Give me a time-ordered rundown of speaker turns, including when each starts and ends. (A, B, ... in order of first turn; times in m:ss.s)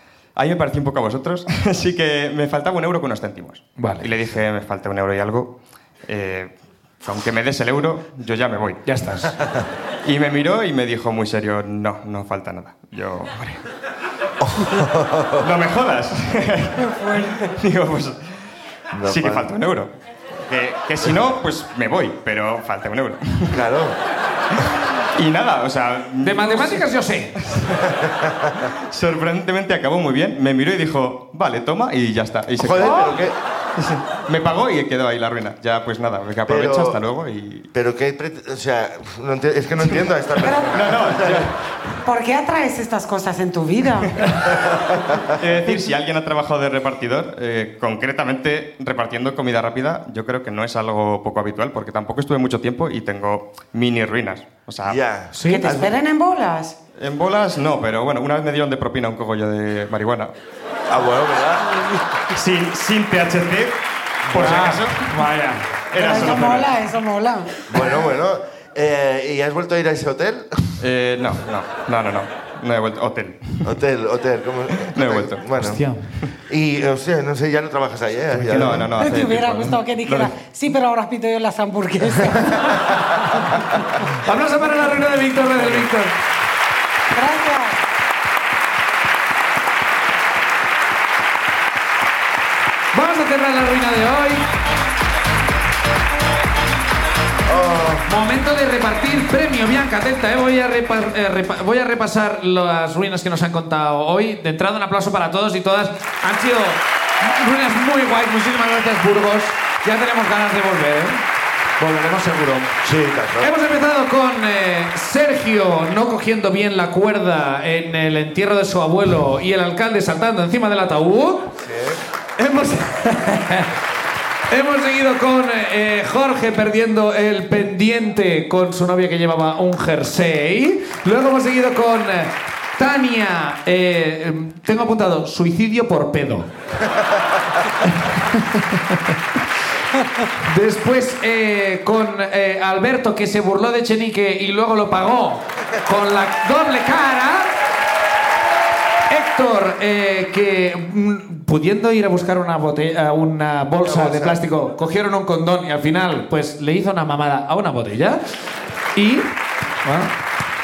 0:00.4-0:05.5 A
0:03.8-0:04.1 B
0:06.1-0:08.8 A
0:08.8-0:09.4 B
0:10.0-0:13.6 A
0:14.4-0:15.5 C
0:15.4-0:18.2 A
0:17.0-0:17.3 D
0:18.9-0:19.5 C
0:19.0-0:19.9 A
0:20.4-0:23.6 A
0:23.5-0:24.0 C
0:25.2-0:26.9 A
0:26.2-0:27.3 B
0:27.4-0:27.9 A
0:27.7-0:28.6 C
0:28.9-0:33.2 A
0:32.6-0:33.4 C
0:32.8-0:33.2 B
0:33.8-0:37.7 A
0:36.5-0:37.0 C
0:37.7-0:41.5 C
0:40.5-0:40.8 D
0:40.6-0:41.6 A
0:42.0-0:44.2 D
0:44.6-0:45.3 C
0:45.4-0:55.0 A
0:54.9-0:55.9 C
0:55.3-0:55.7 B
0:55.4-0:56.8 D
0:57.0-1:00.3 A
1:00.9-1:01.8 C
1:02.3-1:03.8 A
1:04.2-1:05.0 C
1:04.3-1:05.3 A
1:04.3-1:05.8 B
1:05.9-1:06.7 A
1:05.9-1:07.6 D
1:07.7-1:10.6 C
1:10.8-1:13.8 A
1:13.6-1:15.9 C
1:14.8-1:15.5 A
1:15.6-1:16.1 B
1:16.4-1:18.9 C
1:18.3-1:20.3 A
1:19.0-1:22.8 D
1:22.3-1:22.8 C
1:24.2-1:26.1 B
1:27.1-1:27.8 D
1:32.9-1:34.5 B
1:37.5-1:38.0 C
1:38.1-1:51.2 B
1:51.8-1:52.7 B
1:52.8-1:53.5 C
1:53.4-2:01.5 B
2:01.6-2:02.0 C
2:02.4-2:03.7 B
2:04.5-2:16.5 B
2:17.9-2:18.6 B
2:20.4-2:27.5 B
2:29.1-2:38.4 B
2:33.8-2:34.4 C
2:39.0-2:39.3 B
2:39.8-2:40.1 B